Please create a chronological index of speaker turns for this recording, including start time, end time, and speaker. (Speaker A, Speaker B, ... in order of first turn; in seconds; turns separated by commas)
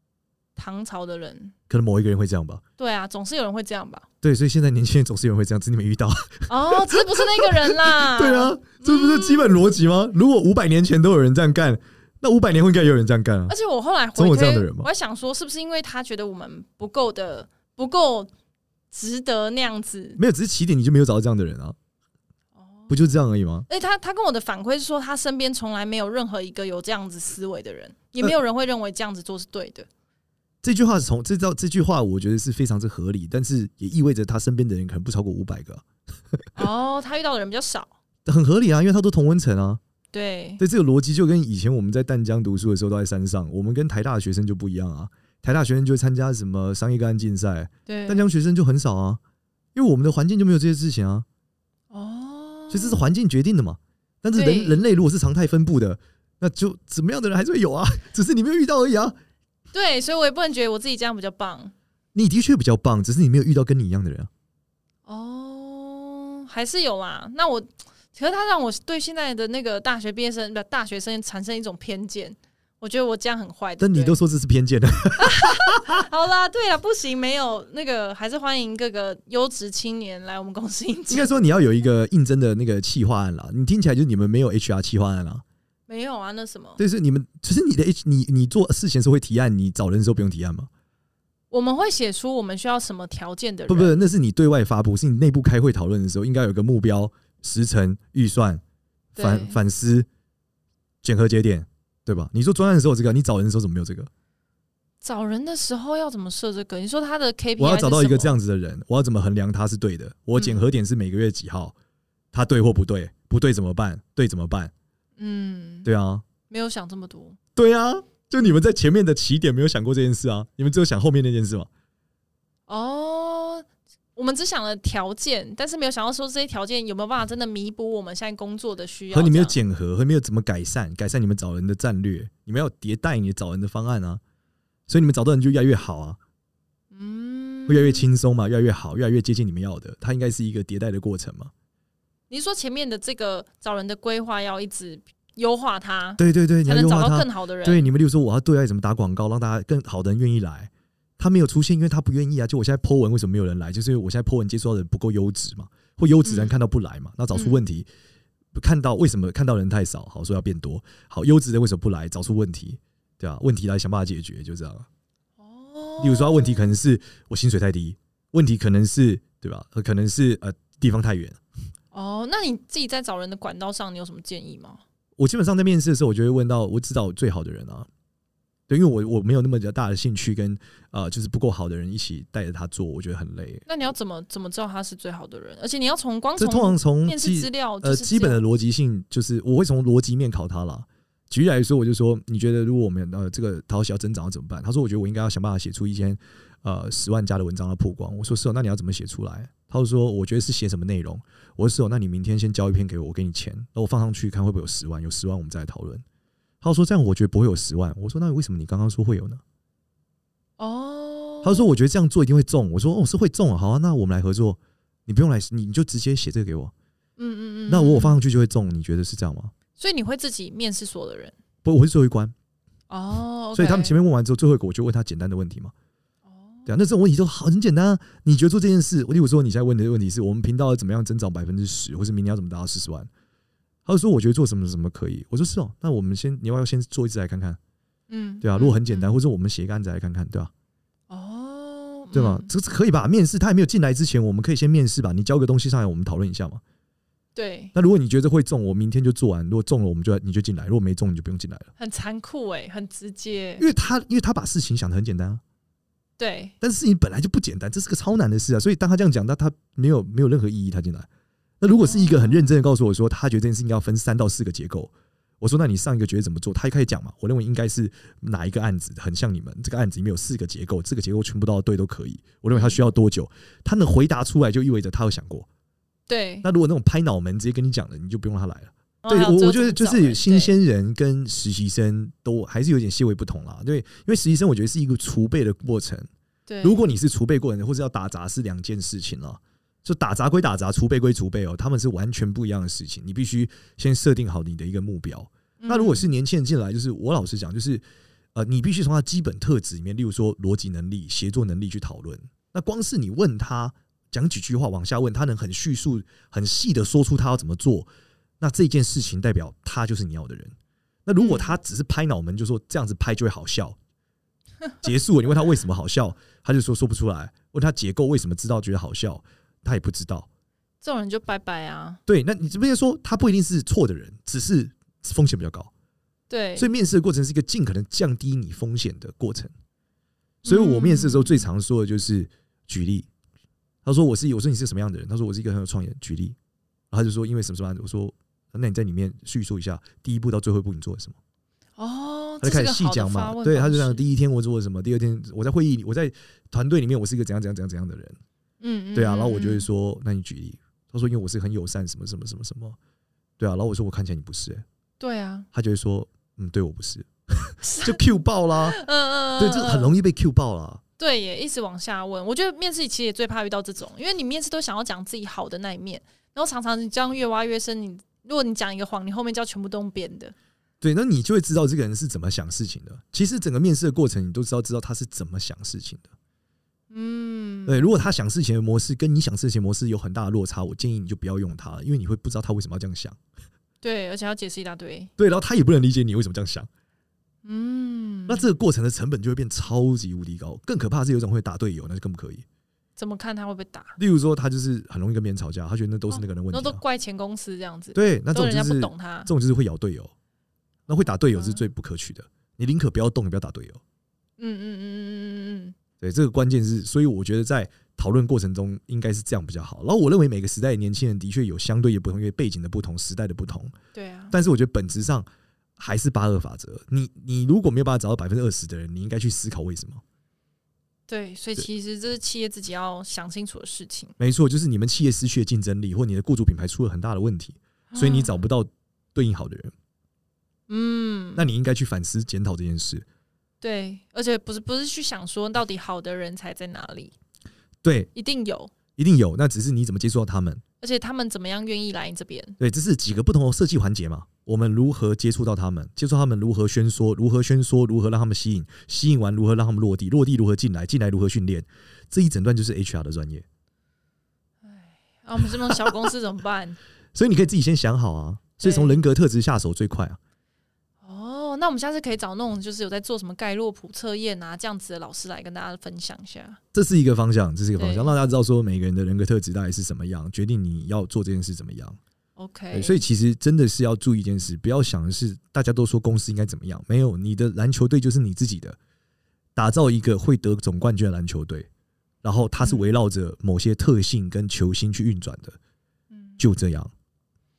Speaker A: 0.6-1.5, Speaker B: 1.7-2.6, Speaker A: 2.8-4.0, Speaker B: 4.2-13.5, Speaker A: 6.5-9.5, Speaker A: 13.5-18.3, Speaker B: 14.2-14.9, Speaker A: 18.9-20.2, Speaker B: 20.2-21.8, Speaker A: 22.6-29.9, Speaker B: 22.9-23.7, Speaker B: 30.6-35.8, Speaker A: 36.5-37.9, Speaker B: 38.2-39.8, Speaker A: 40.1-40.6, Speaker B: 40.6-49.2, Speaker A: 47.9-48.3, Speaker B: 49.7-51.2, Speaker A: 51.9-53.0, Speaker B: 52.7-59.1, Speaker A: 54.3-54.8, Speaker A: 59.7-61.7, Speaker B: 62.1-64.3, Speaker A: 65.0-74.2, Speaker B: 73.8-76.0, Speaker A: 75.2-81.4, Speaker B: 81.1-85.4, Speaker A: 85.9-86.8, Speaker B: 86.8-90.7, Speaker A: 91.5-94.0, Speaker B: 93.7-98.6, Speaker A: 99.2-99.6, Speaker B: 99.2-100.1, Speaker B: 101.0-104.1, Speaker A: 105.0-108.3, Speaker B: 107.6-111.7, Speaker A: 110.3-110.6, Speaker B: 112.3-114.7, Speaker A: 115.2-115.9, Speaker B: 115.8-116.2, Speaker A: 116.5-117.4, Speaker B: 117.5-121.7, Speaker A: 122.7-129.6, Speaker B: 129.1-134.2, Speaker B: 134.9-136.2, Speaker A: 136.9-138.1, Speaker B: 137.7-141.5, Speaker A: 142.3-147.9, Speaker B: 146.2-157.9, Speaker A: 156.2-156.6, Speaker A: 157.3-157.6, Speaker B: 158.5-164.9, Speaker A: 165.4-166.8, Speaker B: 166.0-171.4, Speaker A: 171.9-174.8, Speaker B: 175.2-177.9, Speaker B: 178.7-183.6, Speaker A: 183.7-188.4, Speaker B: 186.4-206.0, Speaker B: 206.6-209.4, Speaker A: 210.6-211.7, Speaker B: 211.4-216.7, Speaker A: 217.2-218.2, Speaker B: 217.7-219.5, Speaker A: 219.8-221.3, Speaker B: 221.6-222.3, Speaker A: 222.9-224.0, Speaker B: 223.5-225.7, Speaker A: 226.3-226.7, Speaker B: 226.7-233.1, Speaker B: 233.8-237.6, Speaker A: 238.1-239.1, Speaker B: 238.4-240.5, Speaker A: 241.1-242.5, Speaker B: 242.1-246.6, Speaker A: 247.3-247.7, Speaker B: 247.7-251.7, Speaker A: 251.8-253.7, Speaker B: 253.6-255.4, Speaker A: 256.2-256.5, Speaker B: 256.6-261.1, Speaker B: 261.6-275.5, Speaker A: 261.8-262.5, Speaker A: 272.5-272.8, Speaker A: 276.1-276.4, Speaker B: 276.4-286.1, Speaker A: 279.0-280.5, Speaker A: 286.5-286.8, Speaker B: 286.6-297.8, Speaker A: 295.6-296.1, Speaker B: 298.3-307.9, Speaker B: 308.4-310.5, Speaker B: 311.1-313.8, Speaker A: 311.2-311.5, Speaker B: 314.8-320.3, Speaker A: 320.8-322.0, Speaker B: 322.1-325.7, Speaker A: 326.3-326.7, Speaker B: 326.6-329.5, Speaker A: 330.4-331.4, Speaker B: 330.4-333.1, Speaker B: 333.8-336.4, Speaker B: 336.9-341.2, Speaker A: 341.8-344.1, Speaker B: 342.4-348.2, Speaker A: 348.6-349.7, Speaker B: 348.9-352.8, Speaker B: 353.4-354.6, Speaker A: 355.0-355.5, Speaker B: 355.5-358.8, Speaker A: 357.6-358.0, Speaker A: 358.6-359.9, Speaker B: 359.4-360.8, Speaker A: 361.0-370.3, Speaker B: 370.8-376.1, Speaker A: 376.9-377.9, Speaker B: 377.6-383.2, Speaker A: 383.8-385.1, Speaker B: 385.2-386.7, Speaker A: 387.4-388.4, Speaker B: 388.3-392.4, Speaker A: 392.9-393.9, Speaker B: 394.0-396.8, Speaker A: 396.1-399.3, Speaker B: 397.9-400.1, Speaker B: 400.9-403.8, Speaker A: 400.9-401.6, Speaker A: 404.4-405.8, Speaker B: 406.0-413.7, Speaker A: 413.9-414.4, Speaker B: 414.3-415.3, Speaker B: 415.8-420.0, Speaker A: 421.1-424.1, Speaker B: 424.2-429.7, Speaker A: 427.9-428.4, Speaker A: 430.7-431.4, Speaker B: 431.3-433.1, Speaker A: 433.6-437.1, Speaker B: 437.8-438.1, Speaker A: 438.1-438.7, Speaker B: 439.0-440.6, Speaker A: 440.8-442.6, Speaker B: 442.6-453.4, Speaker A: 454.6-456.8, Speaker B: 455.7-455.9, Speaker B: 457.1-460.2, Speaker A: 458.6-459.0, Speaker A: 461.0-466.6, Speaker B: 466.7-472.0, Speaker A: 467.8-468.1, Speaker A: 472.4-473.0, Speaker B: 472.7-478.8, Speaker B: 479.6-481.7, Speaker B: 482.2-485.6, Speaker A: 482.6-482.9, Speaker A: 486.1-486.4, Speaker B: 486.4-486.9